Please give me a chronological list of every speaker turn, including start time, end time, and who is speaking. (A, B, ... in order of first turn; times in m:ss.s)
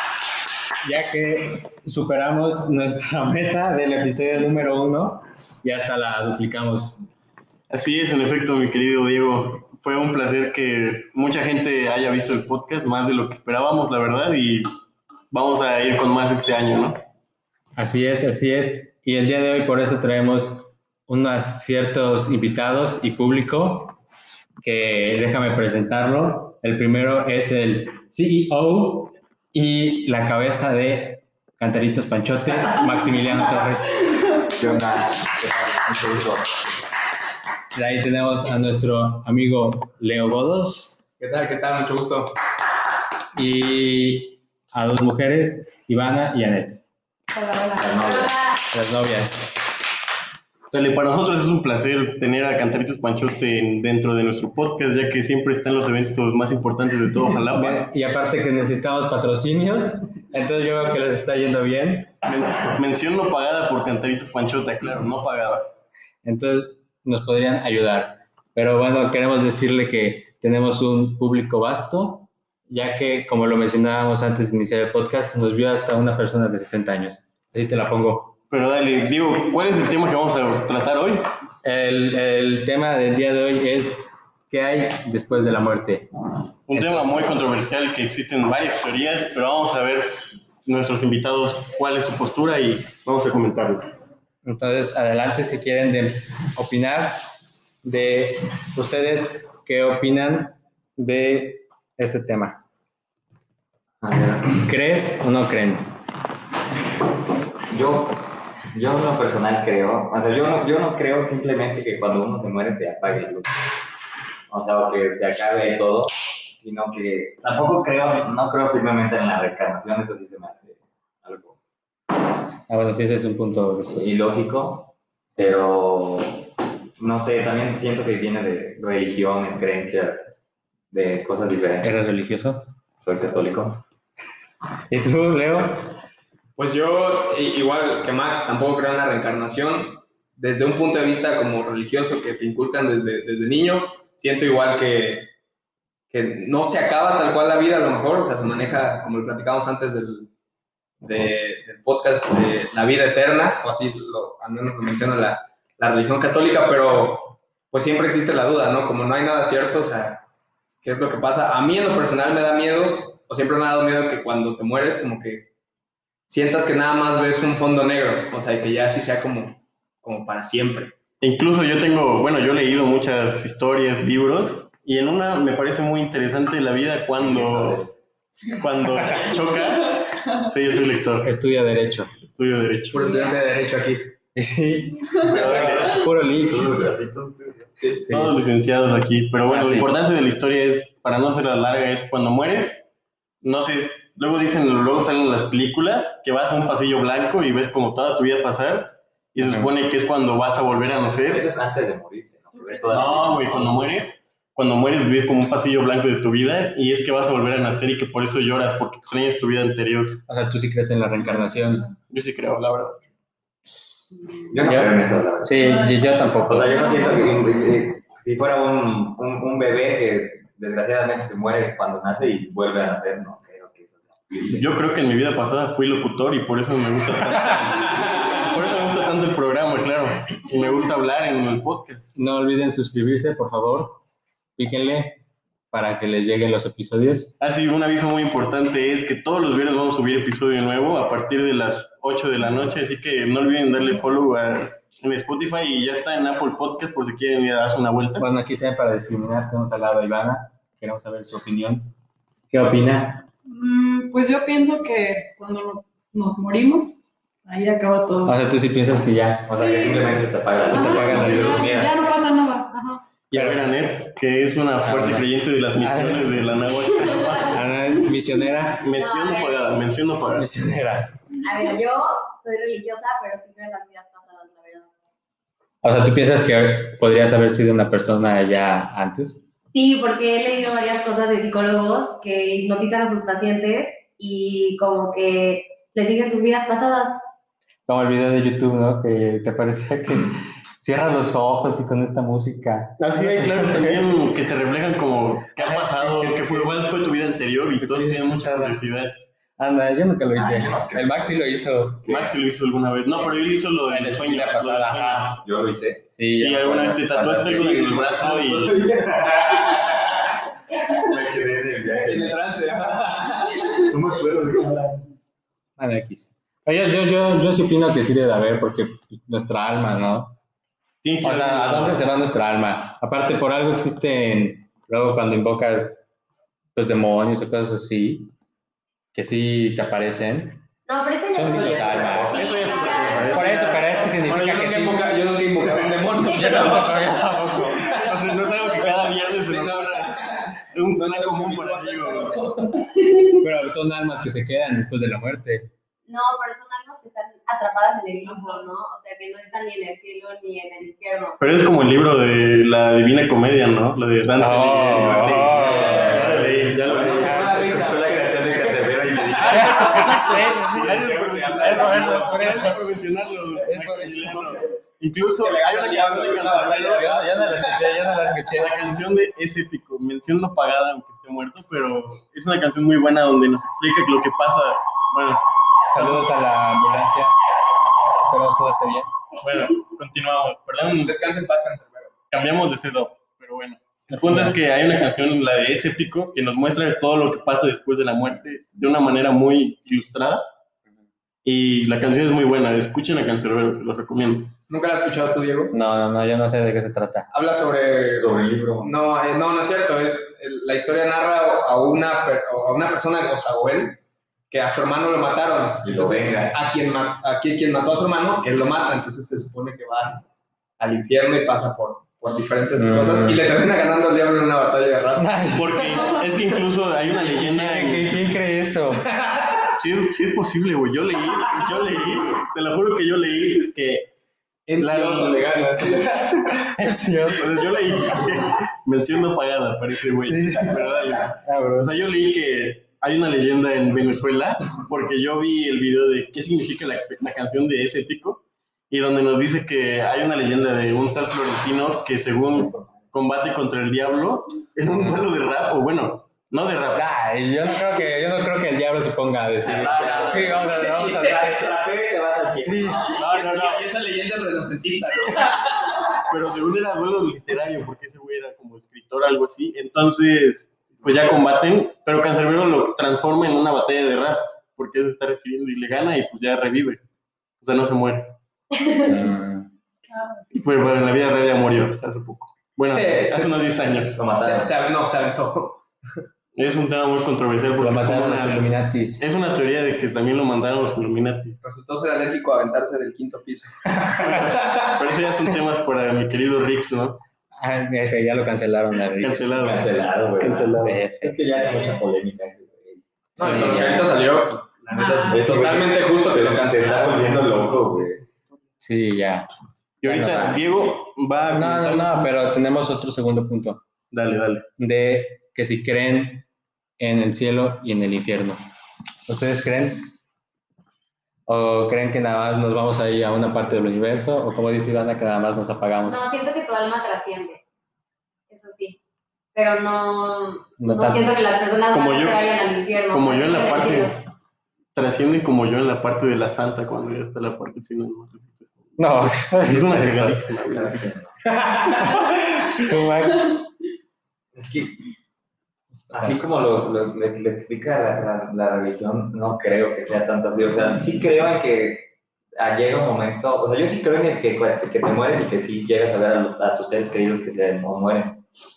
0:00.8-0:07.1 A
0:07.7-0:14.7 B
0:15.3-0:17.0 B
0:17.8-0:24.0 A
0:24.6-0:34.1 A
0:34.5-0:36.7 C
0:37.7-0:41.0 A
0:41.2-0:42.4 D
0:43.4-0:46.8 A
0:47.3-0:48.0 E
0:47.8-0:48.4 C
0:48.0-0:48.5 F
0:48.7-0:49.6 A
0:50.7-0:57.9 B
0:57.5-1:02.2 A
1:02.3-1:05.7 B
1:06.2-1:18.4 A
1:18.5-1:21.3 B
1:21.6-1:26.1 A
1:26.7-1:33.9 B
1:26.7-1:27.4 A
1:34.4-1:37.2 A
1:37.8-1:42.6 A
1:44.0-1:44.6 C
1:44.6-1:45.9 A
1:47.7-1:53.6 C
1:54.5-2:01.6 C
2:02.7-2:04.2 A
2:03.9-2:10.4 C
2:10.9-2:11.9 C
2:11.8-2:12.7 A
2:13.0-2:13.8 C
2:14.9-2:15.9 A
2:16.6-2:25.3 D
2:26.1-2:30.3 D
2:31.0-2:40.2 D
2:40.8-2:45.5 D
2:46.3-2:51.0 D
2:51.2-2:57.8 B
2:57.2-2:57.9 C
2:58.5-3:01.3 B
3:01.2-3:02.1 A
3:02.3-3:03.2 B
3:02.9-3:04.1 D
3:04.4-3:06.8 A
3:05.2-3:06.1 B
3:06.3-3:07.7 C
3:07.8-3:08.1 D
3:08.0-3:12.8 B
3:08.0-3:08.4 A
3:09.5-3:09.9 A
3:13.4-3:21.5 B
3:19.4-3:19.7 A
3:21.3-3:24.0 C
3:22.9-3:30.2 B
3:30.3-3:31.9 A
3:32.1-3:33.0 B
3:34.5-3:35.8 C
3:34.6-3:36.9 A
3:36.5-3:44.6 C
3:44.5-3:52.1 B
3:52.2-3:54.0 A
3:54.6-3:57.4 A
3:57.4-4:08.2 B
4:08.2-4:11.9 A
4:12.5-4:13.3 A
4:13.5-4:18.4 E
4:18.3-4:19.6 A
4:19.5-4:22.0 C
4:19.6-4:20.1 E
4:20.7-4:21.7 A
4:20.7-4:23.0 E
4:23.3-4:27.6 B
4:23.3-4:23.7 A
4:24.8-4:26.4 A
4:27.1-4:28.9 A
4:28.8-4:30.5 B
4:29.0-4:29.6 F
4:30.3-4:31.1 A
4:31.4-4:34.9 F
4:35.8-4:39.4 A
4:39.7-4:47.2 F
4:47.9-4:54.1 A
4:53.0-4:59.2 B
4:55.6-4:56.7 A
4:57.8-4:58.8 A
4:59.6-5:02.3 A
5:00.3-5:01.3 C
5:02.0-5:05.3 B
5:03.9-5:05.4 A
5:05.1-5:06.0 C
5:06.1-5:07.8 A
5:06.3-5:08.8 B
5:07.5-5:12.4 C
5:07.8-5:08.4 D
5:11.8-5:13.8 D
5:13.6-5:15.0 C
5:15.8-5:20.4 A
5:21.0-5:22.0 B
5:21.2-5:26.0 A
5:26.8-5:28.3 A
5:29.1-5:30.6 A
5:30.9-5:33.8 F
5:31.3-5:32.6 A
5:31.7-5:32.5 C
5:31.8-5:33.9 B
5:33.3-5:35.0 A
5:33.4-5:37.2 D
5:36.2-5:37.9 A
5:37.7-5:38.2 D
5:37.9-5:42.4 B
5:38.8-5:43.3 D
5:43.4-5:45.7 A
5:46.1-5:51.4 F
5:48.2-5:48.7 E
5:51.4-5:57.6 B
5:54.4-5:56.4 A
5:54.9-6:02.5 C
5:55.7-5:56.4 D
5:57.0-5:59.7 D
5:57.2-5:57.5 A
5:59.4-6:02.8 A
5:59.7-6:07.2 B
6:03.6-6:04.6 A
6:05.4-6:07.9 D
6:06.9-6:09.1 A
6:08.5-6:15.4 B
6:15.9-6:17.4 A
6:16.0-6:16.3 B
6:18.3-6:19.1 A
6:19.4-6:21.2 B
6:20.7-6:22.2 D
6:22.3-6:30.5 B
6:24.1-6:24.6 A
6:31.4-6:34.6 B
6:34.7-6:35.8 D
6:35.7-6:37.3 A
6:37.3-6:44.0 D
6:38.2-6:38.9 C
6:44.5-6:50.2 D
6:45.8-6:46.6 C
6:50.8-6:56.4 D
6:52.8-6:53.4 A
6:55.2-6:55.8 A
6:55.5-6:58.3 B
6:57.2-6:59.1 A
6:59.2-6:59.7 D
6:59.8-7:04.1 B
7:04.7-7:06.7 D
7:04.8-7:05.5 B
7:06.7-7:07.5 A
7:07.4-7:27.1 B
7:10.3-7:11.9 A
7:22.6-7:23.0 C
7:27.0-7:31.7 A
7:29.6-7:30.6 B
7:29.7-7:30.6 C
7:29.7-7:31.6 D
7:31.3-7:33.2 C
7:32.6-7:33.1 A
7:33.1-7:36.2 D
7:33.2-7:33.9 B
7:36.3-7:47.0 B
7:47.6-7:48.4 B
7:49.0-7:49.7 A
7:50.1-7:50.5 E
7:50.5-7:54.2 B
7:52.9-7:53.7 D
7:54.1-7:54.7 C
7:54.4-7:55.8 D
7:56.6-8:01.6 B
7:57.8-7:59.2 A
8:01.6-8:05.5 D
8:04.5-8:07.2 B
8:07.6-8:09.6 A
8:09.2-8:11.0 B
8:09.6-8:14.0 C
8:10.8-8:11.6 A
8:13.4-8:17.4 D
8:13.4-8:14.1 A
8:14.9-8:15.5 E
8:15.2-8:18.2 C
8:18.8-8:19.5 A
8:20.0-8:22.3 B
8:20.0-8:20.6 A
8:21.5-8:23.8 A
8:24.1-8:24.7 B
8:24.8-8:26.5 A
8:27.0-8:28.6 A
8:29.3-8:30.1 A
8:31.5-8:36.2 A
8:36.0-8:37.6 F
8:38.5-8:39.0 F
8:39.6-8:44.2 F
8:40.8-8:41.3 A
8:41.9-8:42.5 B
8:43.1-8:44.2 B
8:44.9-8:51.1 B
8:49.0-8:50.5 A
8:50.6-8:51.4 C
8:52.0-8:53.6 A
8:54.5-8:55.0 C
8:56.1-8:56.5 A
8:56.1-9:08.4 C